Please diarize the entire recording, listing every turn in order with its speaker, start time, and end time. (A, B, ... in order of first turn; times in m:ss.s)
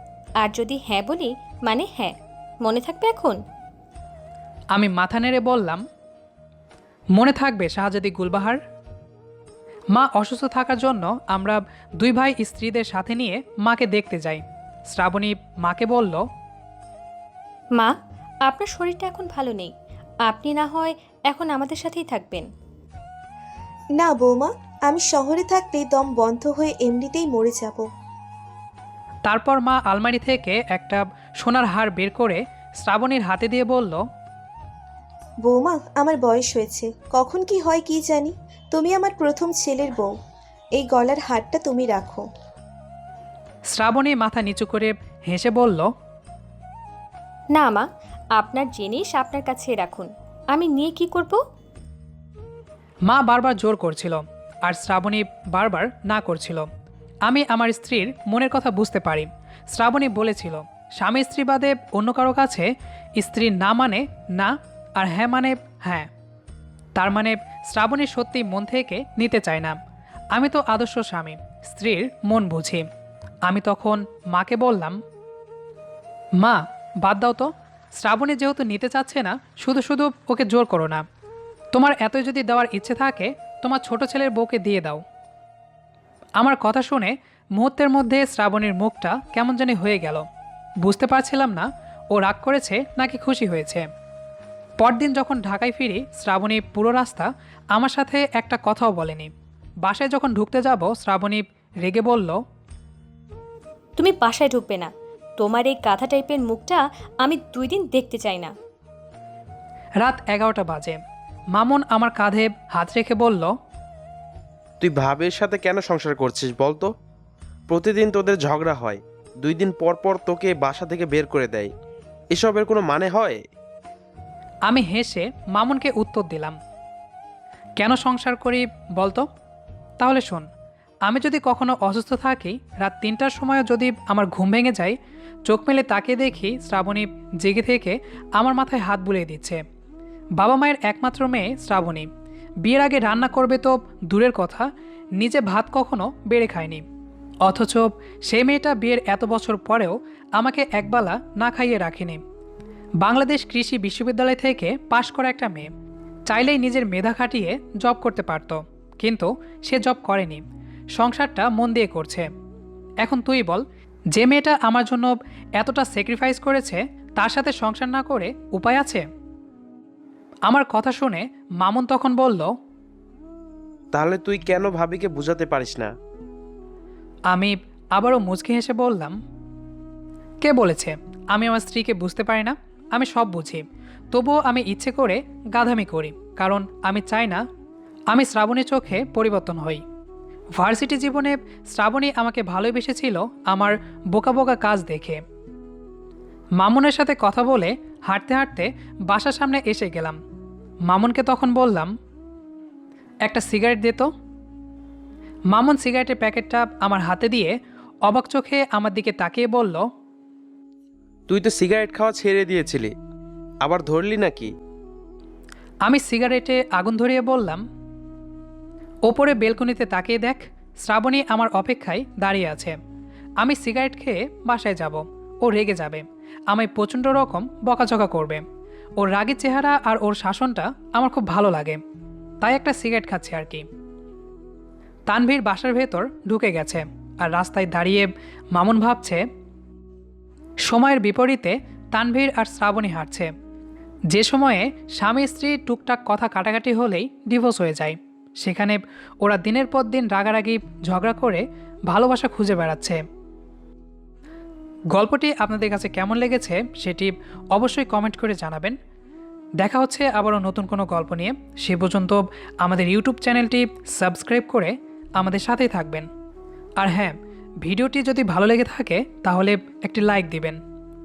0:00.4-0:03.4 A
0:04.7-0:05.8 B
0:07.2-0:08.6 B
0:09.9-0:16.2 B
0:18.5-0:19.7 A
0:20.3-0:22.5 A
0:24.0-0:27.9 C
0:29.3-0:34.0 B
0:35.4-0:40.1 C
0:40.8-0:42.2 C
0:43.7-0:45.9 B
0:47.5-0:47.8 A
0:48.4-0:51.4 A
0:53.1-0:56.7 B
0:57.3-1:06.1 B
1:07.0-1:09.8 B
1:10.3-1:12.8 B
1:13.4-1:15.0 B
1:16.4-1:21.0 B
1:21.7-1:25.0 B
1:26.4-1:30.2 B
1:30.8-1:33.8 B
1:34.8-1:39.3 B
1:39.8-1:42.4 B
1:44.0-1:48.5 A
1:50.0-1:51.0 B
1:51.5-1:53.5 B
1:54.8-1:56.9 D
1:57.7-2:01.7 D
2:02.3-2:03.4 D
2:04.7-2:06.6 B
2:07.8-2:09.3 B
2:10.0-2:10.5 B
2:11.0-2:15.0 B
2:15.5-2:19.6 B
2:20.4-2:22.1 B
2:22.6-2:24.7 B
2:25.2-2:26.8 B
2:27.4-2:32.2 B
2:33.0-2:35.7 B
2:36.3-2:40.4 B
2:41.0-2:42.3 B
2:43.0-2:43.6 B
2:44.1-2:49.0 B
2:50.5-2:52.5 B
2:53.9-2:55.9 D
2:57.3-2:59.2 B
3:00.4-3:07.4 B
3:08.1-3:09.8 B
3:10.6-3:15.2 B
3:16.6-3:20.2 B
3:20.9-3:21.9 B
3:23.2-3:24.1 B
3:25.5-3:27.6 B
3:28.1-3:29.8 B
3:31.3-3:32.9 D
3:33.6-3:34.5 D
3:35.8-3:37.6 B
3:39.1-3:42.7 B
3:43.4-3:48.4 B
3:49.0-3:51.8 B
3:52.4-3:53.6 B
3:55.1-3:59.2 B
4:00.7-4:03.3 B
4:04.1-4:13.0 B
4:14.9-4:18.8 B
4:19.6-4:26.1 B
4:26.8-4:30.6 B